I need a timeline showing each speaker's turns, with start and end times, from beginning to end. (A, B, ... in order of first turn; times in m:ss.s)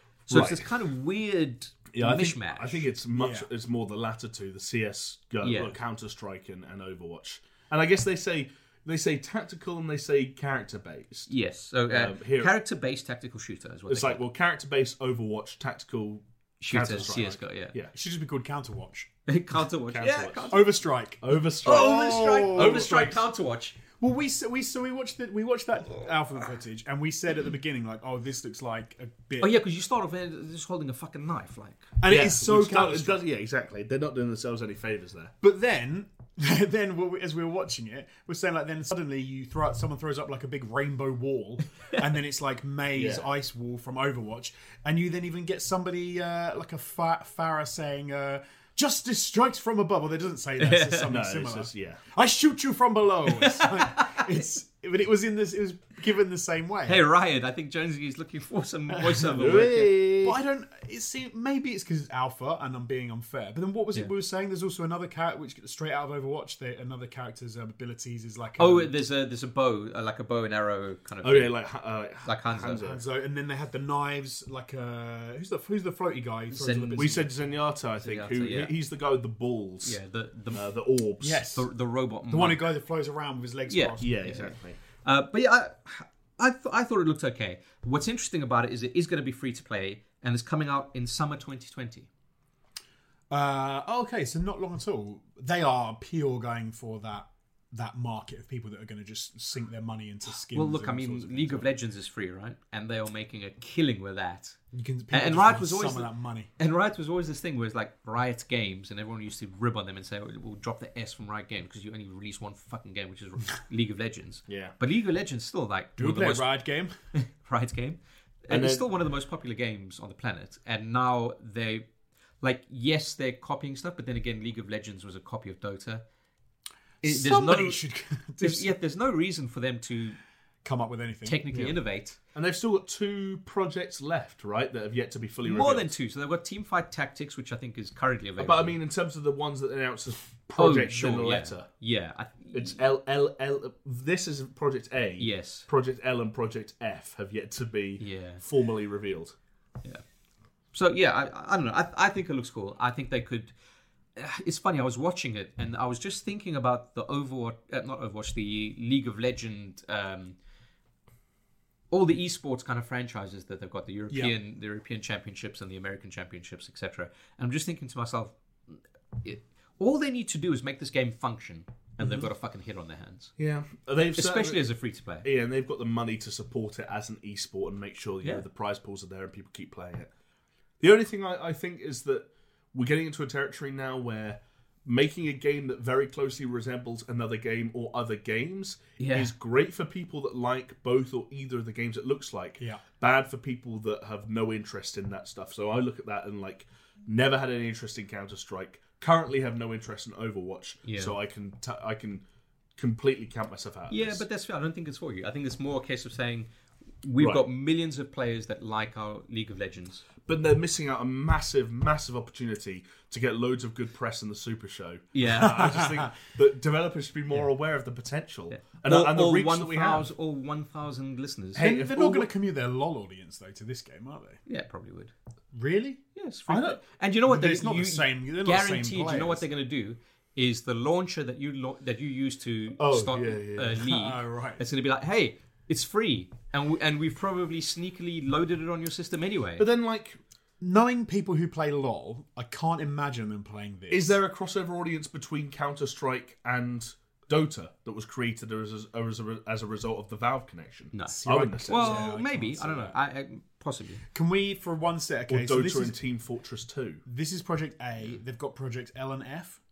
0:00.3-0:00.7 A
0:00.3-0:02.8 B
0:01.9-0:11.3 A
0:03.1-0:03.5 C
0:05.4-0:05.7 B
0:11.3-0:14.2 B
0:11.9-0:12.5 A
0:13.9-0:17.9 A
0:16.6-0:17.7 B
0:17.9-0:19.1 C
0:19.3-0:20.6 B
0:19.9-0:20.6 A
0:20.5-0:23.2 C
0:21.2-0:23.2 A
0:21.6-0:23.8 B
0:24.0-0:29.5 C
0:29.4-0:31.8 B
0:32.0-0:33.2 C
0:32.1-0:35.3 A
0:35.4-0:57.0 C
0:43.0-0:43.3 A
0:50.6-0:51.1 B
0:51.0-0:52.0 A
0:53.3-0:54.3 B
0:56.8-1:00.1 B
0:58.9-1:08.9 C
0:59.3-1:00.4 A
1:08.6-1:11.6 B
1:11.2-1:13.0 A
1:12.2-1:12.8 B
1:12.8-1:17.3 C
1:16.5-1:17.2 B
1:17.0-1:20.0 A
1:18.0-1:18.7 B
1:19.8-1:20.6 B
1:20.5-1:21.5 A
1:21.2-1:21.7 C
1:21.5-1:22.7 B
1:22.3-1:24.2 C
1:23.7-1:32.1 B
1:24.0-1:24.8 A
1:33.3-1:41.7 C
1:40.5-1:44.6 B
1:44.7-1:46.5 C
1:45.1-1:46.1 B
1:46.6-1:56.5 B
1:54.5-1:54.8 A
1:56.0-1:56.9 C
1:57.1-2:01.8 B
1:58.5-1:58.8 A
2:02.4-2:06.0 B
2:07.0-2:07.8 B
2:07.0-2:08.7 C
2:08.4-2:10.2 B
2:10.6-2:11.4 C
2:11.2-2:12.2 B
2:11.5-2:11.8 A
2:12.3-2:15.9 A
2:15.4-2:18.8 B
2:18.4-2:21.7 A
2:20.6-2:22.8 B
2:22.5-2:29.3 A
2:25.2-2:25.7 B
2:28.0-2:28.4 B
2:30.7-2:33.5 B
2:34.2-2:40.4 B
2:41.9-2:53.3 B
2:52.0-2:52.3 C
2:53.4-2:54.6 A
2:54.2-2:55.3 B
2:55.2-3:00.1 A
3:00.8-3:22.2 A
3:09.0-3:09.3 B
3:20.8-3:21.1 B
3:22.8-3:24.2 A
3:23.9-3:26.5 B
3:27.0-3:30.0 B
3:27.2-3:27.4 A
3:30.2-3:40.1 A
3:35.1-3:35.8 B
3:35.4-3:36.0 C
3:38.5-3:41.7 B
3:41.5-3:42.3 A
3:41.6-3:44.4 C
3:44.5-3:45.1 B
3:45.5-3:46.0 C
3:46.1-3:59.6 B
3:46.5-3:46.8 A
3:47.3-3:49.4 C
3:52.8-3:53.8 A
3:53.8-3:54.6 C
3:59.6-4:00.2 A
4:00.6-4:04.2 C
4:03.9-4:12.1 A
4:10.9-4:14.0 B
4:11.1-4:13.0 C
4:14.1-4:16.0 C
4:15.3-4:17.0 A
4:17.0-4:19.6 C